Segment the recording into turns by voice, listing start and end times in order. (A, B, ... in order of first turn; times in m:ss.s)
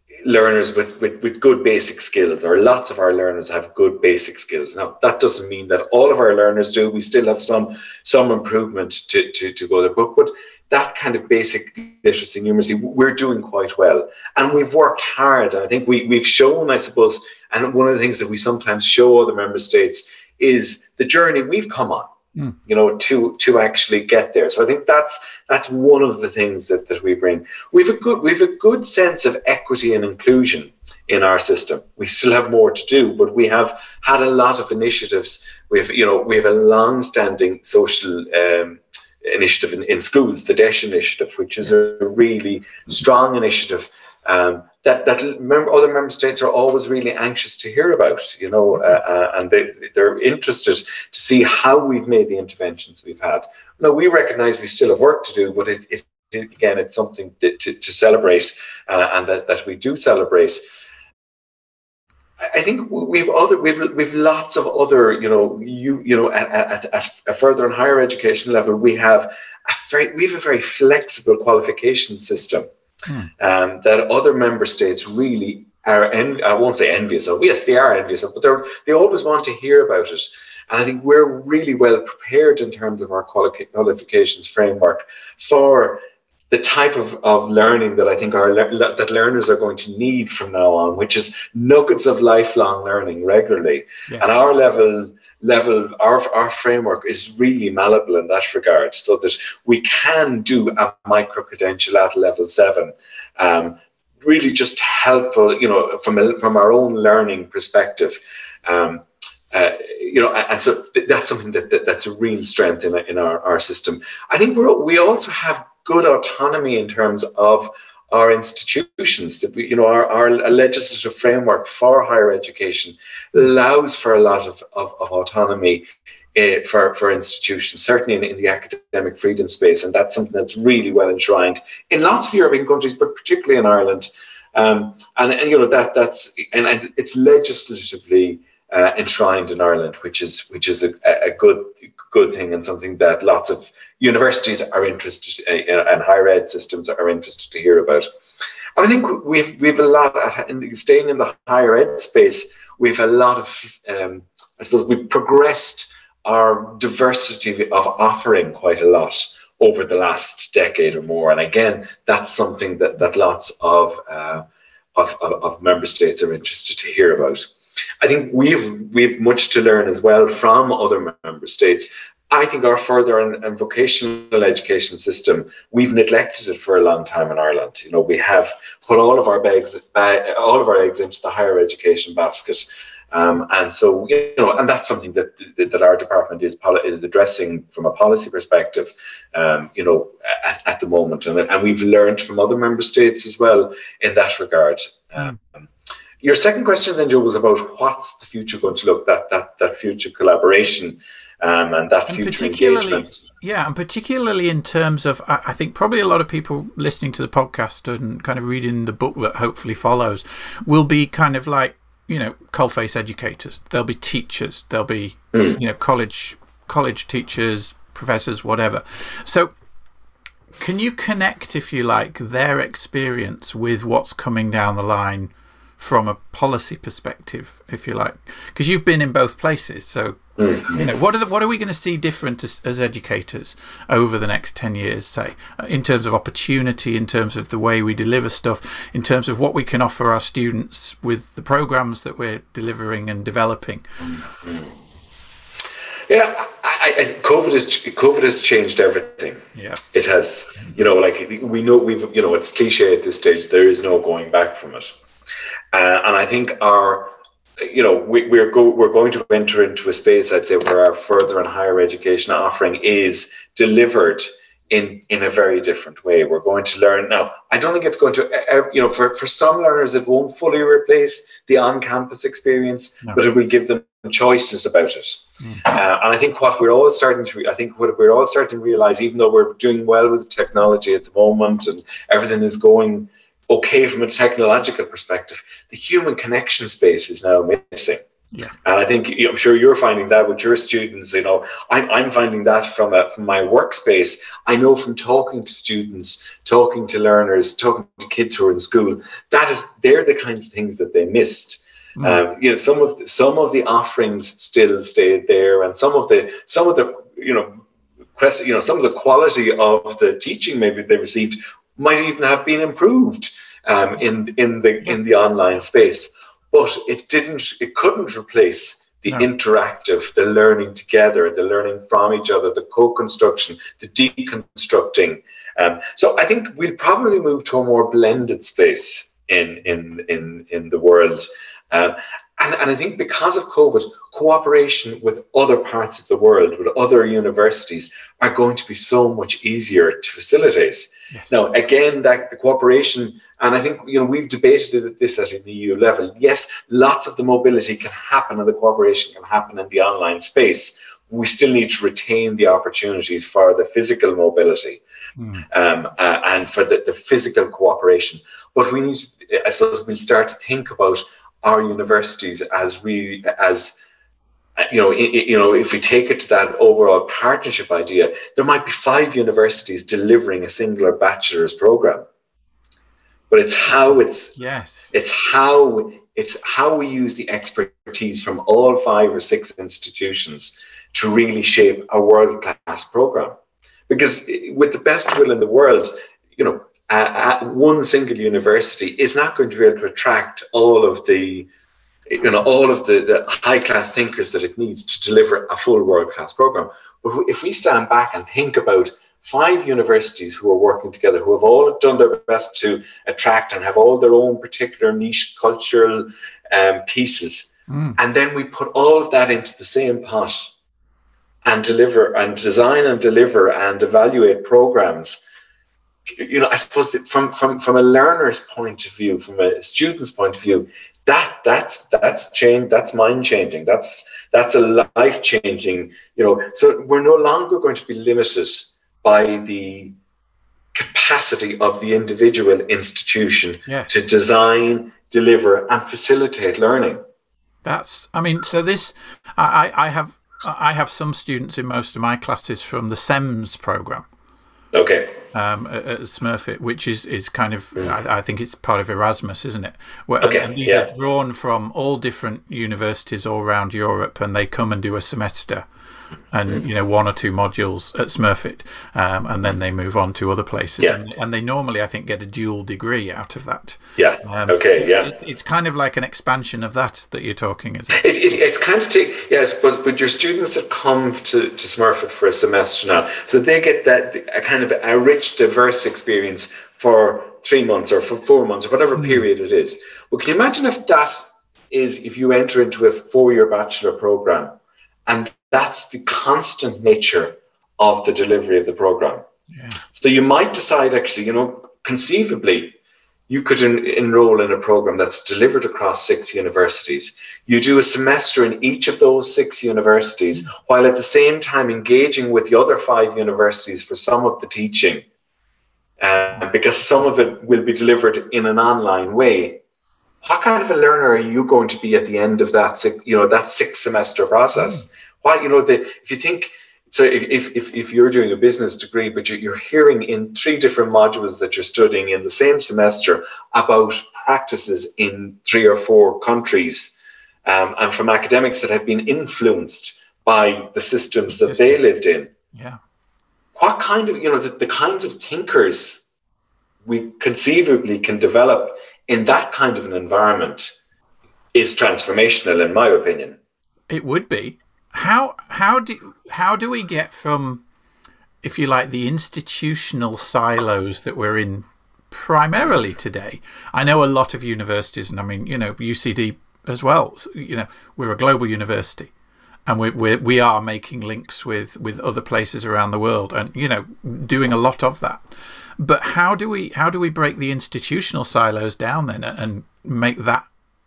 0:00.2-0:22.1 A
0:22.7-1:00.6 A
1:02.4-1:12.7 A
1:13.4-2:28.1 A
1:34.1-1:34.4 B
2:28.8-2:44.4 A
2:45.0-3:15.7 A
3:16.2-3:23.2 A
3:22.1-3:39.5 B
3:40.6-4:03.8 B
3:50.4-3:50.9 A
4:06.1-4:14.9 A
4:09.6-4:09.8 B
4:15.7-4:48.0 A
4:48.6-5:07.6 A
5:02.0-5:02.2 B
5:08.2-5:54.8 A
5:55.2-5:55.4 B
5:55.5-6:03.7 A
6:04.6-6:12.0 A
6:13.3-6:14.3 A
6:14.4-6:14.9 B
6:14.9-6:23.4 A
6:23.9-6:31.5 A
6:32.1-6:50.5 A
6:47.7-6:48.0 B
6:51.4-6:55.2 A
6:56.1-7:10.0 A
7:10.7-7:17.0 A
7:13.7-7:14.0 B
7:17.6-7:24.1 B
7:24.7-7:25.2 A
7:25.3-7:35.7 B
7:30.2-7:30.9 A
7:36.3-7:48.0 B
7:44.0-7:45.1 A
7:48.0-8:04.6 A
7:59.0-7:59.2 B
8:05.1-8:09.2 A
8:09.5-8:09.8 B
8:09.9-8:12.8 A
8:13.3-8:25.1 A
8:26.0-8:29.6 A
8:30.2-8:46.9 A
8:47.5-8:52.3 A
8:51.4-8:51.8 B
8:52.5-8:52.8 B
8:53.6-8:56.0 A
8:56.9-9:00.7 A
9:01.6-9:03.4 A
9:03.9-9:07.6 B
9:08.4-9:19.1 B
9:19.7-9:25.2 B
9:25.8-9:30.5 B